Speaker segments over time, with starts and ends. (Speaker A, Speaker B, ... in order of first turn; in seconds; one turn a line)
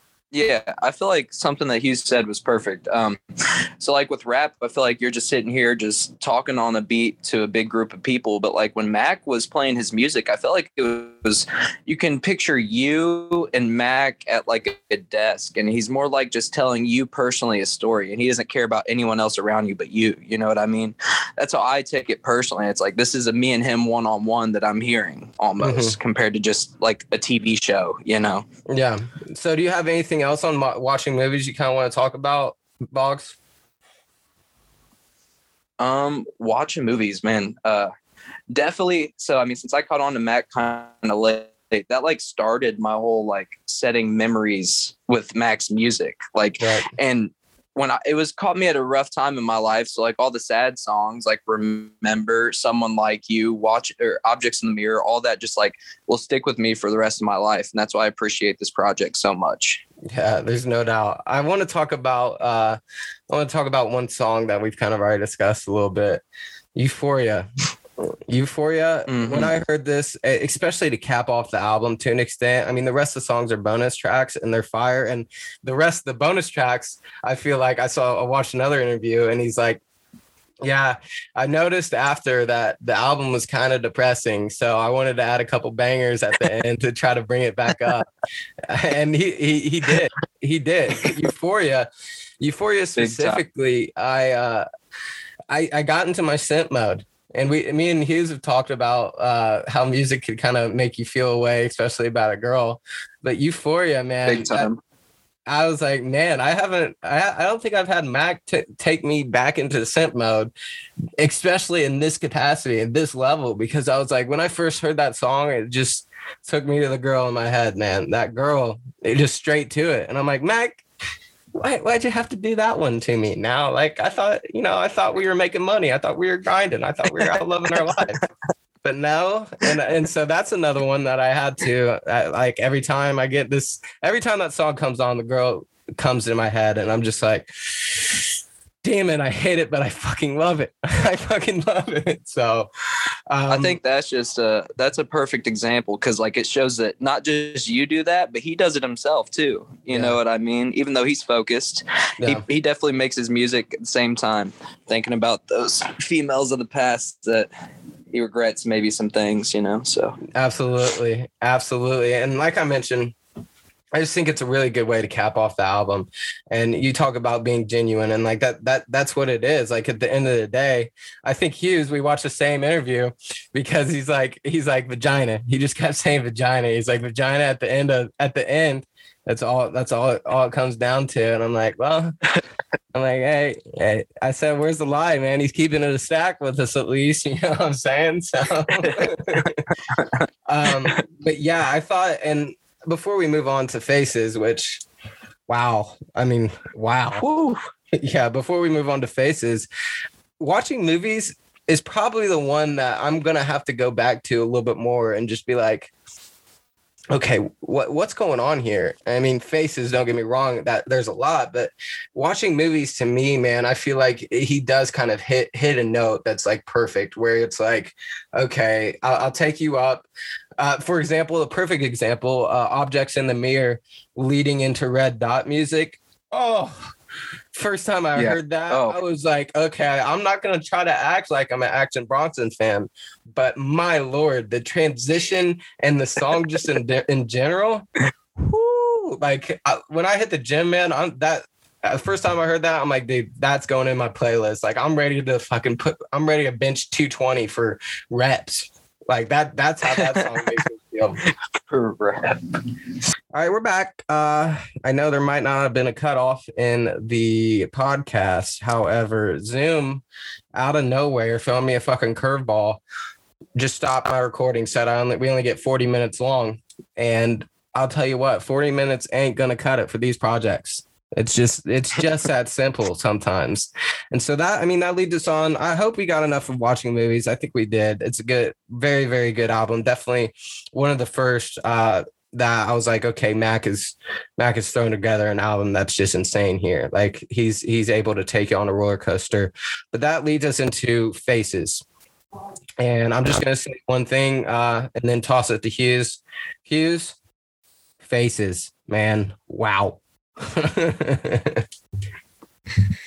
Speaker A: 0.3-3.2
Speaker A: 3.8-28.4
Speaker B: 25.6-26.0
Speaker B: 28.7-33.4
Speaker A: 35.8-37.9
Speaker A: 38.5-59.8
Speaker B: 46.6-46.9
Speaker B: 60.0-66.2
Speaker B: 66.7-67.5
Speaker B: 68.3-79.8
Speaker A: 69.1-69.5
Speaker B: 80.6-88.1
Speaker B: 88.6-91.9
Speaker B: 92.4-94.7
Speaker A: 93.0-93.4
Speaker B: 95.5-104.7
Speaker A: 104.2-104.8
Speaker B: 105.5-110.5
Speaker B: 111.2-120.8
Speaker B: 121.6-128.2
Speaker B: 128.8-138.2
Speaker B: 138.8-142.7
Speaker B: 143.3-143.8
Speaker A: 143.5-157.5
Speaker B: 149.9-150.1
Speaker A: 158.1-160.2
Speaker B: 160.3-163.1
Speaker B: 163.9-182.1
Speaker B: 182.9-189.6
Speaker A: 188.8-191.0
Speaker B: 190.4-194.8
Speaker B: 195.5-197.2
Speaker A: 197.1-197.6
Speaker B: 197.9-199.7
Speaker B: 200.4-205.9
Speaker B: 207.1-220.1
Speaker B: 220.6-226.9
Speaker B: 227.5-251.2
Speaker A: 228.2-229.0
Speaker A: 249.9-250.3
Speaker A: 251.2-252.6
Speaker B: 253.3-260.0
Speaker B: 260.5-262.8
Speaker B: 263.6-291.8
Speaker B: 292.8-297.1
Speaker B: 298.0-301.6